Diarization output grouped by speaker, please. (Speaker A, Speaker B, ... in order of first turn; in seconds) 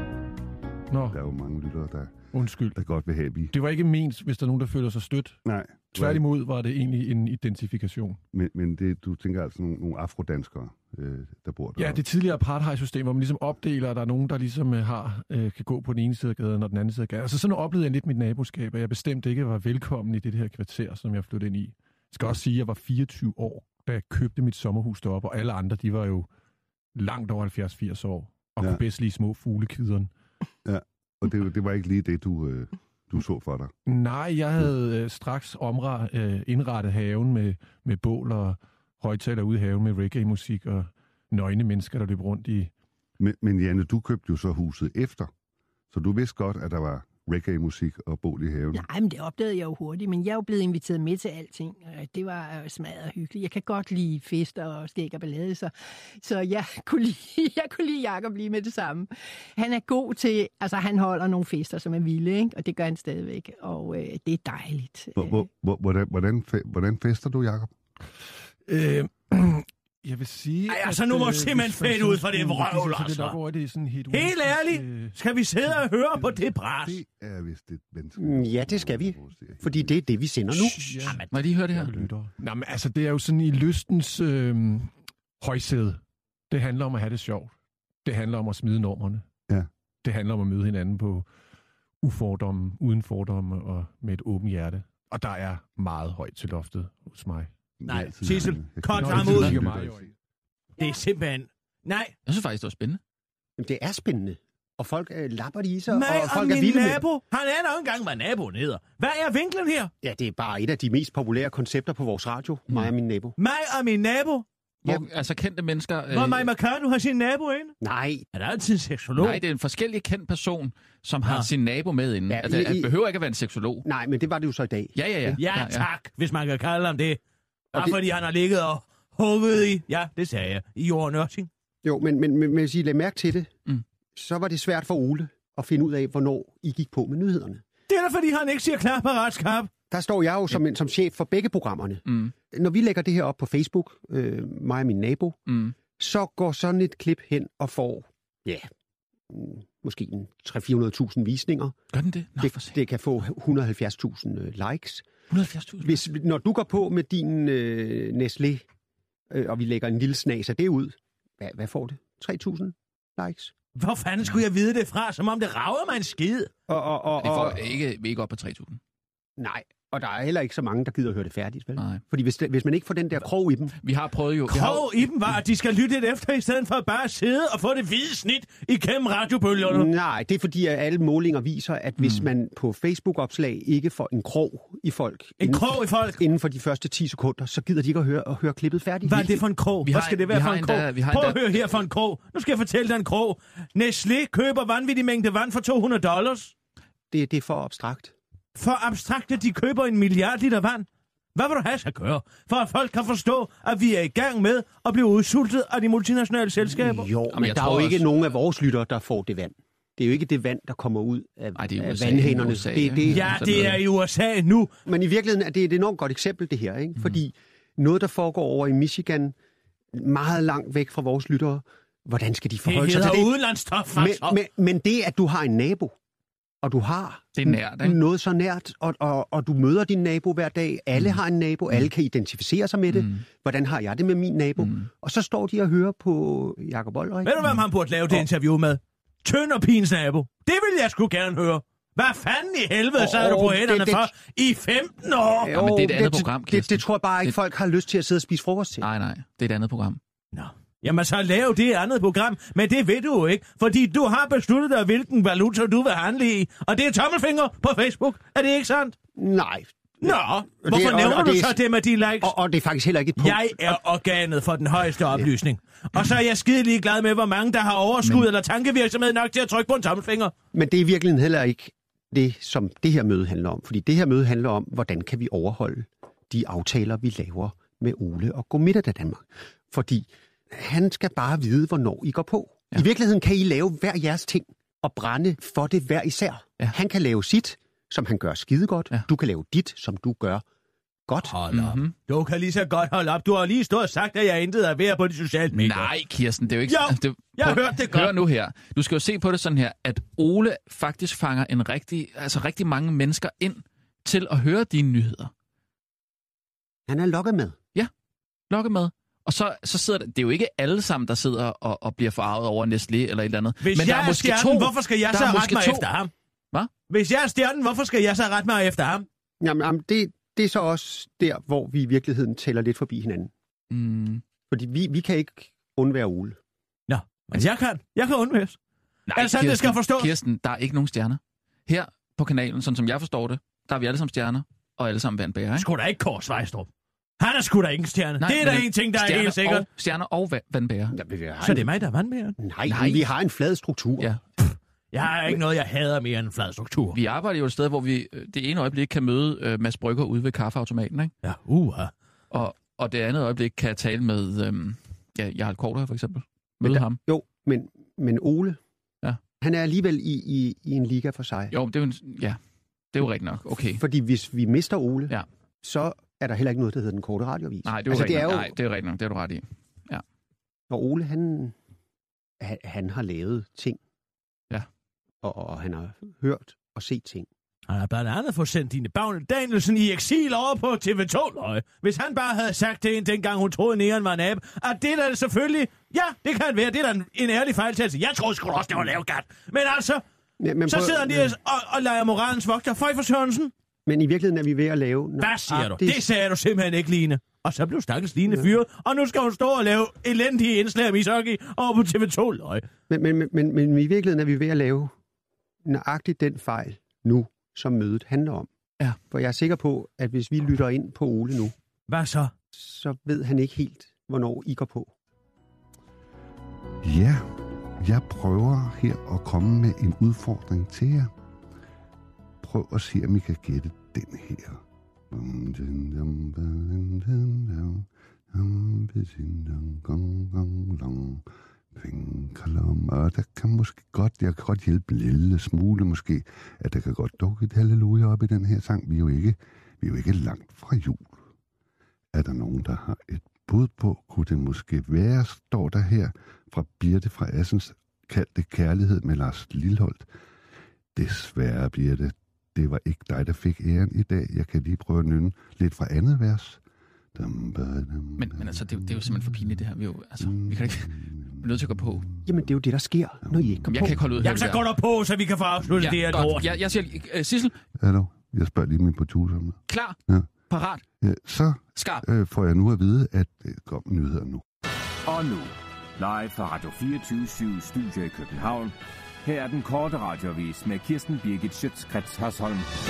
Speaker A: 0.9-1.2, 2.3-2.8, 3.5-5.4, 5.9-8.2, 11.8-26.3, 26.9-30.1, 33.9-42.7, 68.7-75.1, 80.7-89.2, 90.0-91.3, 92.0-97.5, 99.0-100.1
Speaker B: 1.1-2.2, 2.7-3.5, 5.4-6.2, 8.3-12.0, 30.6-33.7, 43.2-45.3, 45.9-48.8, 65.1-67.7, 76.8-79.9, 97.8-100.1, 416.8-421.1, 422.4-441.2, 442.1-450.1, 450.9-456.6, 457.1-459.5, 460.2-461.9, 463.3-464.0, 467.8-470.2, 471.0-474.4
Speaker C: 48.7-65.5
Speaker D: 70.7-73.4, 74.1-77.0, 97.9-99.6, 100.8-102.1, 105.9-109.9, 113.4-114.5, 116.1-117.8, 118.3-119.4, 125.4-127.2, 127.7-131.5, 137.9-139.7, 163.8-166.5, 174.5-179.9, 185.4-186.2, 189.1-196.5, 198.6-207.1, 213.1-214.7, 222.6-224.3, 237.2-245.5, 250.3-258.9, 260.0-262.3, 263.2-270.3, 291.2-295.9, 296.7-298.1, 313.6-316.1, 316.9-319.1, 326.9-328.6, 329.1-330.1, 335.6-336.7, 337.2-339.6, 341.4-342.4, 344.9-347.0, 351.2-351.9, 377.7-390.0, 390.7-393.5, 395.2-402.6, 411.9-412.3, 464.2-466.5
Speaker E: 78.2-81.1, 103.6-107.0, 110.0-113.4, 117.8-118.2, 122.3-122.9, 123.8-125.4, 131.8-133.5, 134.1-137.6, 139.9-145.4, 146.0-148.7, 149.3-151.8, 152.4-155.1, 155.8-158.6, 159.3-163.5, 166.7-167.8, 169.4-173.8, 179.6-189.4, 197.1-198.1, 206.7-213.3, 214.8-219.3, 219.9-223.3, 223.9-225.9, 226.6-237.6, 243.0-244.1, 245.4-248.8, 259.2-261.6, 262.2-263.7, 270.5-290.4, 291.1-291.3, 306.9-307.6, 319.4-323.3, 324.5-326.4, 340.9-341.7, 342.4-344.1, 356.6-358.6, 359.4-361.5, 363.8-365.1, 365.6-368.5, 370.7-371.5, 372.4-373.8, 375.2-377.3, 390.4-391.3, 393.9-396.0, 402.9-404.9, 405.6-408.5, 409.1-411.5, 412.5-414.9, 462.2-464.3
Speaker F: 80.5-81.9, 102.2-103.0, 114.8-116.5, 119.2-123.9, 124.9-125.9, 142.1-142.3, 145.5-145.7, 151.9-152.8, 155.3-156.0, 167.2-168.8, 171.8-172.0, 173.8-175.1, 182.0-182.3, 189.8-191.8, 207.3-208.1, 211.6-213.8, 227.4-228.0, 232.9-233.2, 234.6-234.8, 245.5-247.3, 248.8-250.0, 291.5-291.9, 295.5-305.3, 308.5-315.9, 323.7-324.2, 329.1-335.7, 338.2-341.0, 342.7-343.1, 346.9-351.1, 352.3-357.0, 361.5-362.4, 362.9-363.8, 367.6-370.0, 458.2-462.1, 463.6-464.6, 465.8-467.5, 469.7-470.0, 470.5-470.8, 471.8-472.0
Speaker G: 475.1-482.7